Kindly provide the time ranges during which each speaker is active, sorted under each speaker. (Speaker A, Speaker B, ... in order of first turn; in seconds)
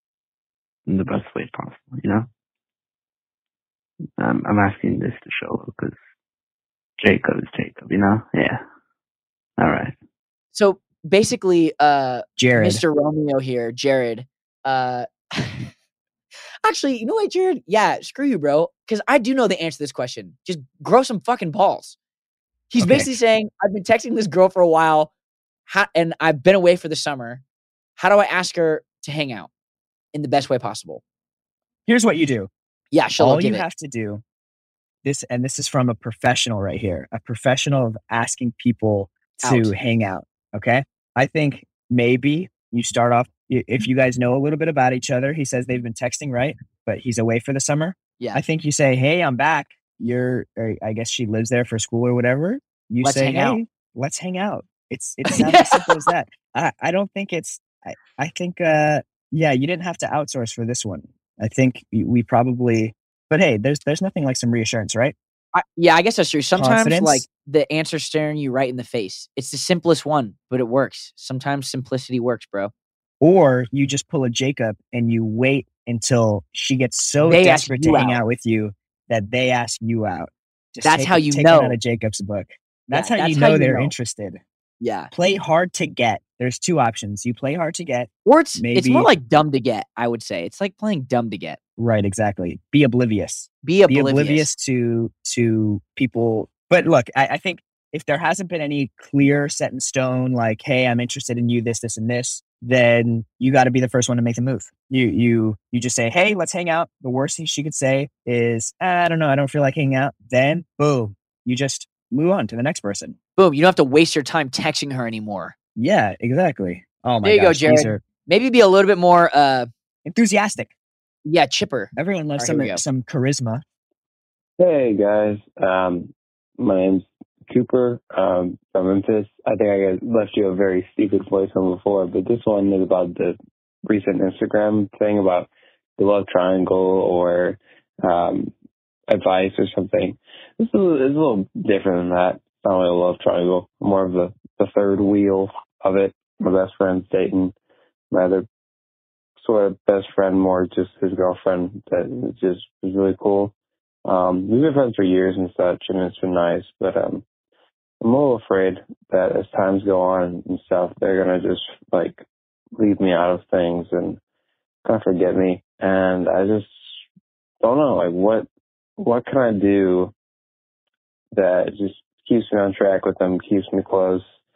Speaker A: 0.9-2.3, 4.2-6.0, 7.0-8.6, 9.6-9.9
Speaker B: 10.5-15.7, 16.6-22.0, 22.7-25.1, 25.7-27.4, 28.0-29.5, 30.1-31.0, 32.9-33.6, 39.4-39.8, 53.0-53.6, 55.2-56.0, 65.5-72.7, 77.2-78.2, 80.8-81.8, 82.9-84.0, 84.8-85.1, 88.3-91.6, 93.6-94.5, 113.4-115.5, 117.2-119.7, 121.2-122.8
Speaker C: 12.4-12.8, 22.8-23.1, 31.9-32.5, 33.2-34.2, 35.0-65.2, 66.5-67.2, 73.2-84.4, 85.1-89.1, 91.8-113.2, 115.8-118.0, 120.0-120.7, 122.0-123.6
Speaker D: 124.6-138.5, 139.1-147.5, 148.1-148.4, 149.4-153.5, 154.1-157.2, 158.0-162.2, 162.8-164.2, 164.8-166.7, 167.6-168.5, 169.0-170.1, 171.3-174.2